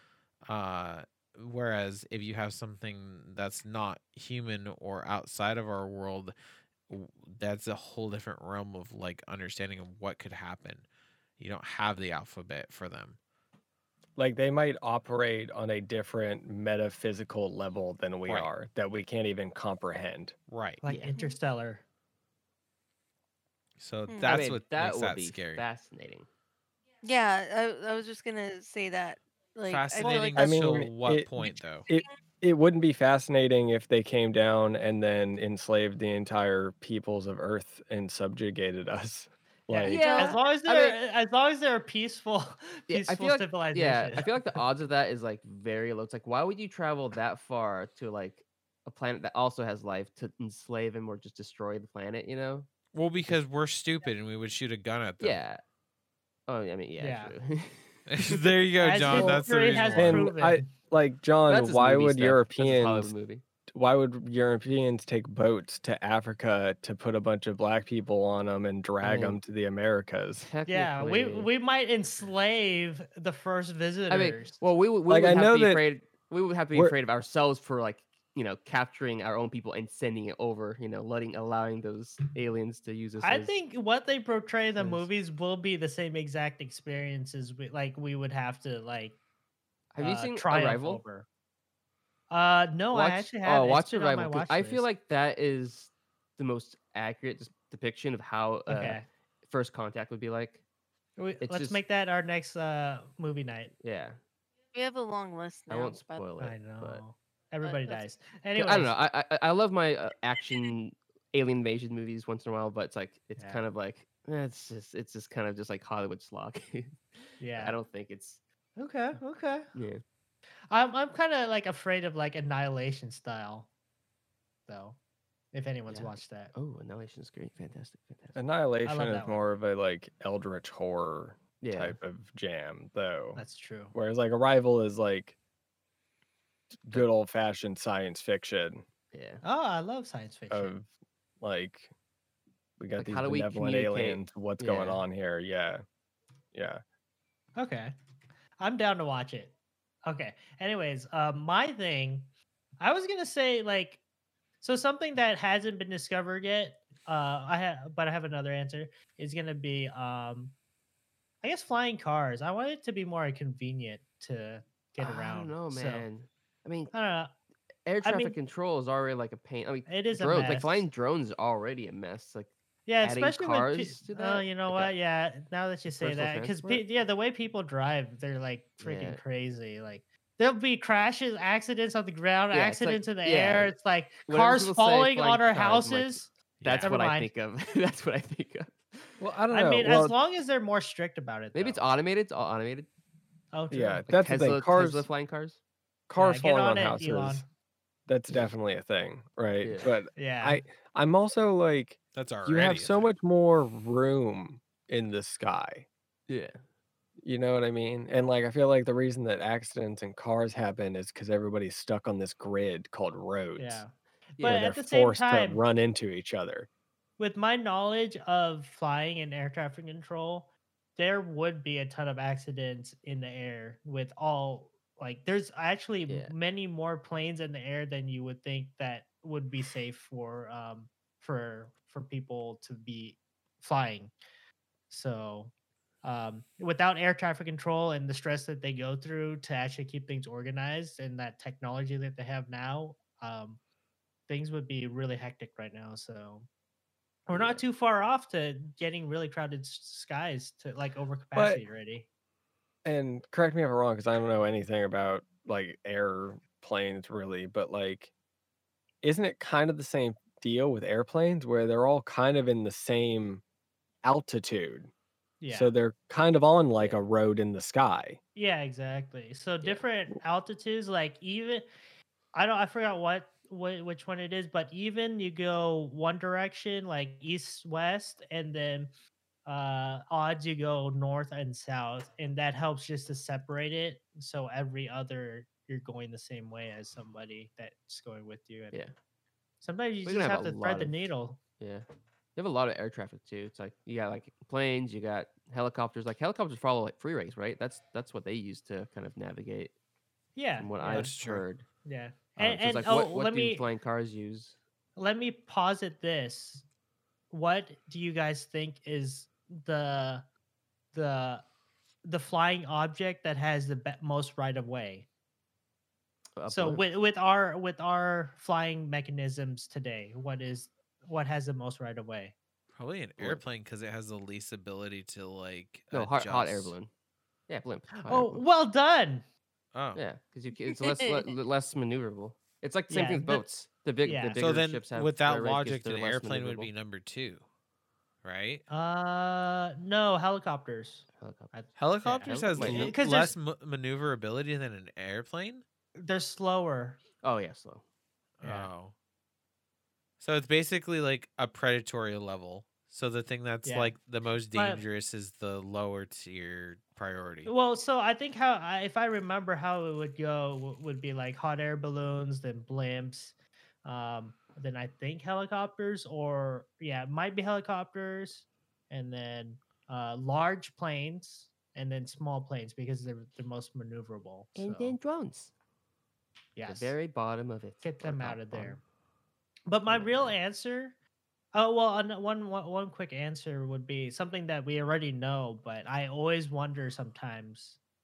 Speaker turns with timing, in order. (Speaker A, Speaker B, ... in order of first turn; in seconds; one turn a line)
Speaker A: 0.5-6.3
Speaker A: 6.9-10.9
Speaker A: 11.4-13.2
Speaker B: 14.2-20.3
Speaker A: 20.5-20.8
Speaker C: 20.8-21.8
Speaker D: 20.9-21.1
Speaker E: 21.1-21.4
Speaker A: 23.8-25.6
Speaker E: 24.1-24.4
Speaker D: 24.2-26.3
Speaker E: 27.0-30.9
Speaker A: 29.7-31.9
Speaker B: 30.3-31.3
Speaker E: 31.4-32.1
Speaker B: 31.9-40.0
Speaker C: 39.7-44.6
Speaker D: 39.9-41.0
Speaker E: 39.9-40.4
Speaker D: 42.9-52.7
Speaker A: 52.9-55.4
Speaker D: 55.2-55.6
Speaker D: 56.5-58.5
Speaker C: 57.0-57.3
Speaker A: 58.1-60.3
Speaker C: 58.8-60.7
Speaker B: 59.1-63.1
Speaker D: 61.5-63.4
Speaker B: 63.7-70.5
Speaker D: 69.0-69.4
Speaker D: 70.4-71.5
Speaker C: 70.7-74.6
Speaker D: 74.1-83.5
Speaker B: 75.1-75.8
Speaker C: 83.2-89.2
Speaker D: 84.8-85.1
Speaker D: 89.9-91.0
Speaker C: 90.0-91.3
Speaker C: 92.3-94.8
Speaker D: 92.9-100.6
Speaker C: 98.7-99.0
Speaker C: 101.2-103.7
Speaker D: 101.4-101.8
Speaker D: 103.8-104.2
Speaker E: 104.7-106.2
Speaker D: 105.7-107.0
Speaker C: 106.4-108.9
Speaker E: 107.6-108.0
Speaker D: 108.5-117.0
Speaker C: 113.4-113.6
Speaker C: 117.4-117.8
Speaker D: 117.6-118.4
Speaker C: 118.8-119.7
Speaker D: 119.7-120.0
Speaker C: 120.7-123.7
Speaker C: 124.7-125.0
Speaker C: 125.5-126.5
Speaker D: 125.9-128.4
Speaker B: 128.3-133.4
Speaker C: 128.8-129.4
Speaker D: 131.6-132.0
Speaker C: 133.3-133.9
Speaker B: 133.9-135.3
Speaker B: 136.8-138.8
Speaker D: 139.1-139.4
Speaker C: 139.4-140.7
Speaker B: 140.5-140.9
Speaker B: 141.4-141.9
Speaker B: 142.8-145.8
Speaker D: 143.0-145.0
Speaker B: 146.5-146.8
Speaker C: 147.6-147.9
Speaker C: 148.6-149.5
Speaker C: 150.0-154.0
Speaker C: 154.6-160.6
Speaker C: 161.4-166.1
Speaker D: 165.0-166.9
Speaker C: 166.9-167.3
Speaker D: 167.8-174.9
Speaker C: 168.0-168.3
Speaker C: 169.9-170.9
Speaker C: 172.9-187.3
Speaker D: 176.0-176.8
Speaker D: 178.8-179.2
Speaker D: 182.5-183.7
Speaker D: 184.3-189.2
Speaker A: 186.6-186.9
Speaker B: 189.2-190.2
Speaker C: 189.5-191.8
Speaker D: 191.5-192.9
Speaker C: 193.5-194.0
Speaker B: 193.7-195.1
Speaker D: 194.1-195.6
Speaker B: 196.1-197.4
Speaker C: 196.2-197.4
Speaker B: 198.1-205.9
Speaker D: 199.6-200.0
Speaker C: 200.2-200.6
Speaker A: 202.1-203.1
Speaker D: 206.3-206.6
Speaker B: 207.2-213.8
Speaker C: 213.6-215.6
Speaker D: 214.4-214.7
Speaker B: 214.4-216.7
Speaker C: 217.2-234.1
Speaker D: 226.1-226.3
Speaker C: 234.9-235.5
Speaker C: 236.0-243.6
Speaker C: 244.3-246.5
Speaker C: 247.3-252.1
Speaker D: 247.3-247.6
Speaker B: 251.3-251.6
Speaker B: 252.8-258.1
Speaker B: 259.0-263.4
Speaker B: 264.0-264.9
Speaker C: 265.4-265.7
Speaker B: 265.5-268.2
Speaker D: 266.7-267.0
Speaker C: 268.3-271.7
Speaker C: 272.3-278.9
Speaker C: 279.4-288.8
Speaker C: 289.6-291.4
Speaker D: 290.0-299.7
Speaker C: 300.3-301.1
Speaker D: 300.6-301.6
Speaker A: 300.8-301.4
Speaker C: 301.8-303.7
Speaker D: 302.4-304.6
Speaker C: 305.0-306.6
Speaker C: 307.3-310.2
Speaker C: 310.9-311.4
Speaker C: 312.0-315.1
Speaker D: 316.4-316.8
Speaker C: 316.5-322.3
Speaker A: 322.7-326.7
Speaker D: 323.2-323.4
Speaker D: 325.9-326.9
Speaker D: 327.5-328.4
Speaker C: 328.0-329.2
Speaker A: 329.7-330.0
Speaker D: 329.9-336.7
Speaker E: 330.8-331.3
Speaker C: 332.9-333.5
Speaker C: 334.0-334.4
Speaker A: 334.4-337.4
Speaker A: 338.2-338.6
Speaker C: 338.7-343.3
Speaker D: 341.2-341.5
Speaker A: 341.8-345.6
Speaker D: 342.2-342.9
Speaker C: 345.9-347.0
Speaker D: 347.2-347.8
Speaker A: 348.4-348.9
Speaker C: 348.4-348.7
Speaker A: 350.2-357.5
Speaker C: 353.6-353.9
Speaker C: 354.5-354.8
Speaker C: 357.4-375.0
Speaker D: 374.6-375.5
Speaker C: 376.6-376.9
Speaker D: 376.6-378.8
Speaker C: 377.8-378.8
Speaker C: 379.6-381.0
Speaker D: 379.9-380.4
Speaker C: 381.5-387.8